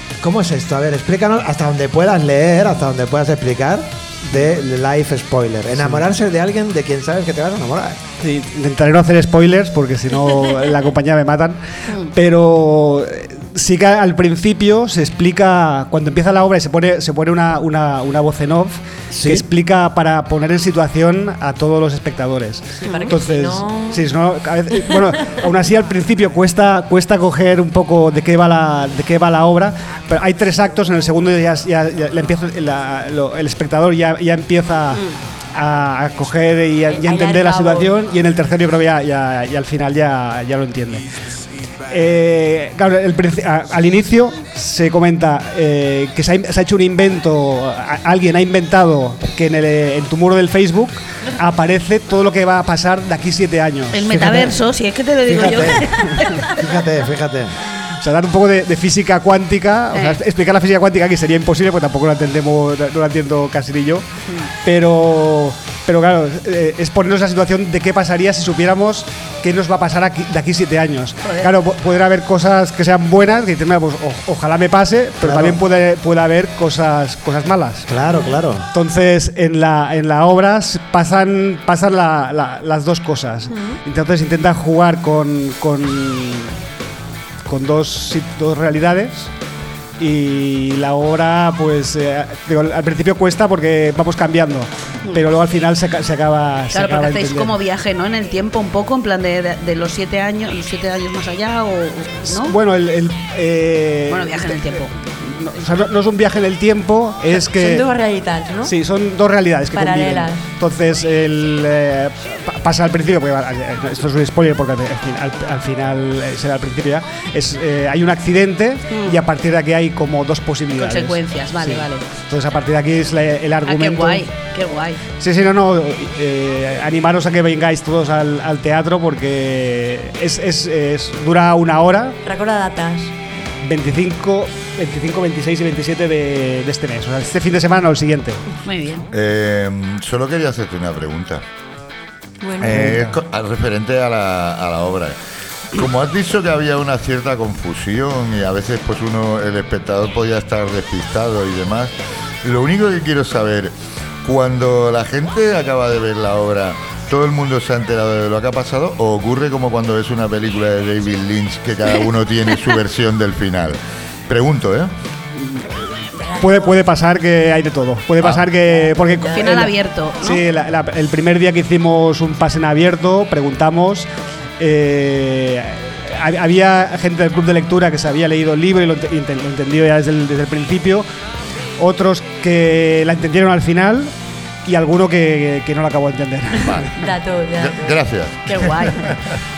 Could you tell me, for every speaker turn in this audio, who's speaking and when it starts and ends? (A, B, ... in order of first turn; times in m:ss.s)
0:00.2-0:08.0 A
0:05.8-0:06.0 B
0:08.2-0:41.1 B
0:19.1-0:19.4 A
0:22.8-0:24.0 C
0:22.9-0:23.1 D
0:34.9-0:35.2 D
0:36.9-0:37.9 C
0:41.9-0:54.1 B
0:53.9-0:56.4 D
0:54.1-0:54.6 A
0:55.3-0:55.9 A
0:56.5-0:57.5 A
0:58.0-1:04.0 B
0:59.9-1:00.2 D
1:04.6-1:17.8 B
1:15.2-1:15.6 A
1:17.9-1:18.7 A
1:18.7-1:26.5 B
1:23.5-1:23.8 C
1:27.5-1:29.3 B
1:30.0-1:37.5 B
1:36.7-1:42.6 D
1:42.2-1:47.8 B
1:44.1-1:44.9 D
1:47.4-1:48.7 C
1:48.6-2:04.3 B
1:49.7-1:50.4 C
1:58.9-1:59.2 D
2:00.7-2:02.1 D
2:03.6-2:05.0 D
2:05.2-2:12.1 B
2:12.2-2:13.1 C
2:13.6-2:18.4 B
2:18.6-2:19.1 D
2:19.1-2:21.4 E
2:22.4-2:23.0 C
2:22.6-2:25.2 E
2:25.7-2:33.7 E
2:34.2-2:44.9 E
2:46.3-2:46.7 C
2:46.4-3:01.0 B
2:48.2-2:48.5 E
2:48.7-2:49.6 C
2:49.3-2:50.4 D
3:01.8-3:04.1 B
3:04.6-3:06.9 B
3:07.0-3:08.0 C
3:07.6-3:09.2 E
3:08.5-3:09.0 D